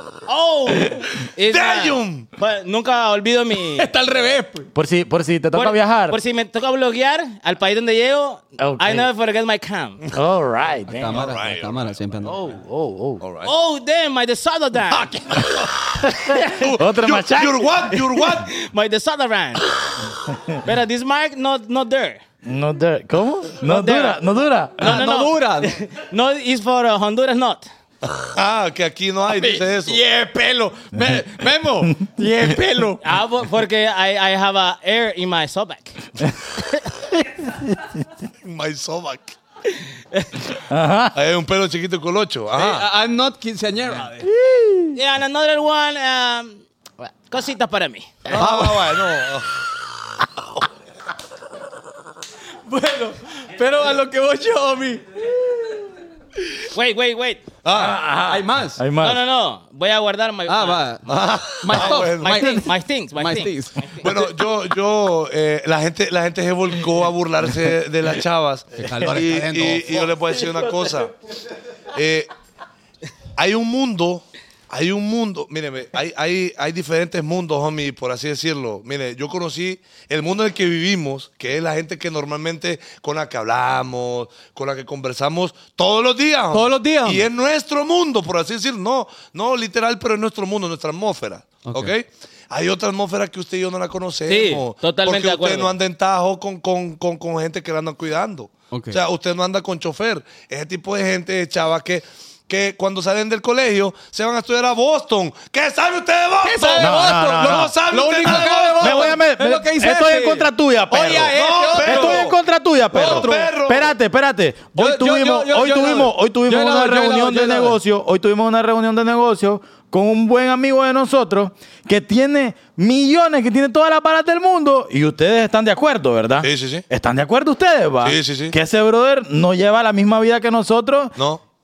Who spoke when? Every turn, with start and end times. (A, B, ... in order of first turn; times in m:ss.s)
0:00.2-0:03.9 A
0:01.5-0:02.3 B
0:03.8-0:04.7 C
0:04.7-0:06.2 D
0:05.5-0:10.0 A
0:08.6-0:09.1 D
0:10.1-0:11.2 D
0:10.9-0:12.4 C
0:11.1-0:11.9 B
0:12.2-0:13.2 D
0:13.2-0:13.5 B
0:13.4-0:15.1 A
0:15.3-0:18.5 B
0:16.2-0:17.7 D
0:16.3-0:16.7 A
0:17.9-0:19.8 A
0:20.6-0:22.2 A
0:22.4-0:25.0 D
0:23.6-0:24.2 A
0:24.8-0:27.7 A
0:24.8-0:25.7 C
0:28.0-0:30.0 B
0:29.3-0:33.0 C
0:33.0-0:36.0 A
0:38.4-0:39.3 B
0:40.7-0:41.2 D
0:41.1-0:42.8 B
0:42.5-0:44.3 C
0:44.2-0:45.0 D
0:44.9-0:48.2 A
0:48.2-0:49.5 B
0:48.3-0:48.8 C
0:52.6-0:55.9 C
0:56.7-0:57.4 A
0:57.6-0:58.0 B
0:57.7-0:59.2 D
0:58.3-0:58.8 C
0:59.0-1:00.9 A
1:00.5-1:04.2 C
1:01.1-1:02.5 B
1:01.7-1:04.0 A
1:04.0-1:11.1 B
1:08.8-1:10.1 C
1:11.9-1:12.3 B
1:13.4-1:49.2 B
1:26.5-1:27.2 C
1:31.6-1:31.9 C
1:34.3-1:35.7 A
1:38.7-1:39.0 C
1:46.4-1:52.3 C
1:46.8-2:11.2 D
1:51.3-1:52.3 B
1:52.9-1:53.5 C
1:52.9-1:53.9 B
1:54.7-1:57.8 C
2:06.4-2:06.8 B
2:08.0-2:08.5 B
2:11.2-2:11.4 B